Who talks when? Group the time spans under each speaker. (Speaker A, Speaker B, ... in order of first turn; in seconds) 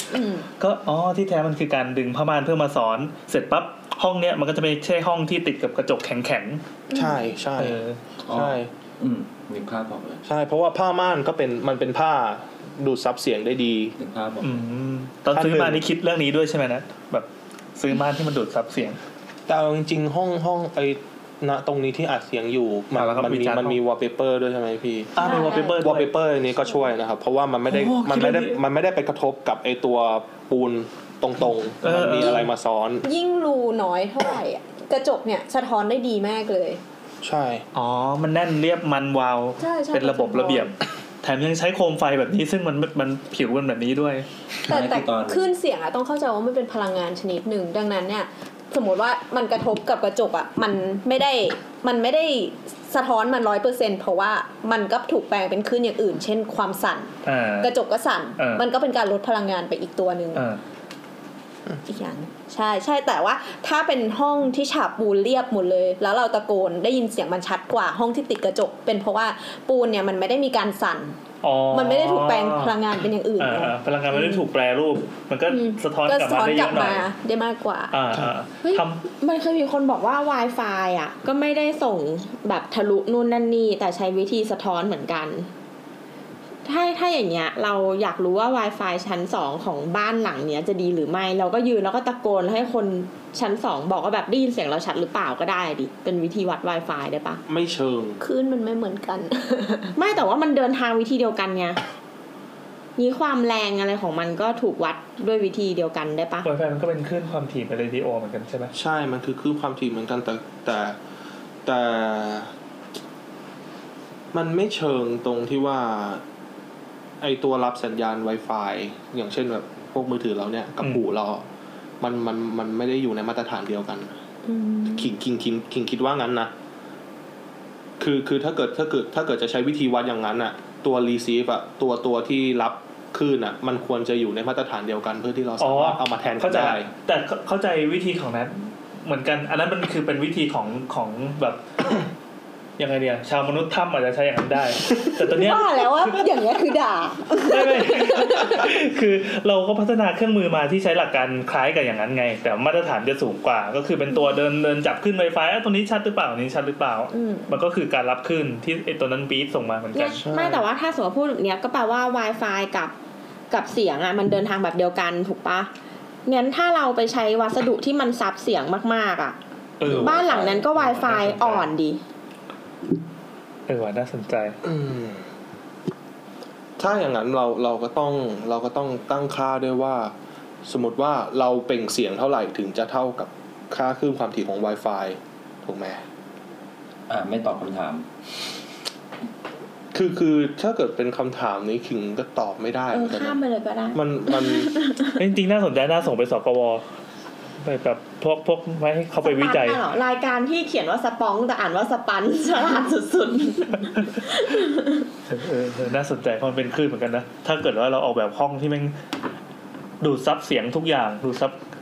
Speaker A: 0.1-0.5, 6.9-7.2, 25.2-25.8, 33.0-36.8, 39.6-40.7, 44.7-60.5, 61.9-71.2, 71.7-74.4, 75.5-77.9, 98.2-99.9, 124.5-125.1, 145.3-148.6, 157.1-157.6
Speaker B: 0.6-6.6, 7.6-8.0, 14.4-19.0, 22.9-23.8, 25.1-26.1, 27.7-28.6, 31.8-32.5, 37.8-44.2, 57.2-57.7, 58.4-58.6, 60.4-60.6, 71.4-77.1, 77.9-79.0, 106.4-108.7, 135.6-141.6, 142.8-146.2, 147.4-160.2, 169.8-171.7, 173.7-174.6, 195.2-196.8, 197.6-199.8, 205.3-208.9, 210.0-211.6
Speaker C: 6.9-8.7, 10.2-13.9, 15.3-15.8, 19.5-33.0, 37.2-37.6, 97.5-98.2, 108.7-111.0, 111.7-112.5, 114.3-116.2, 117.2-121.5, 122.0-124.1, 125.0-126.5, 128.0-136.9, 160.2-160.7, 174.6-175.2, 176.8-180.1, 180.7-186.0, 189.9-193.4, 193.9-194.8
Speaker D: 8.3-10.2, 14.0-14.6, 44.7-45.5, 169.9-170.6, 187.1-188.1
Speaker E: 78.6-85.5, 86.7-97.4, 100.0-101.8, 103.0-106.5, 159.9-162.9, 163.5-165.7, 166.3-169.4, 169.9-172.0, 192.9-195.2, 199.2-204.9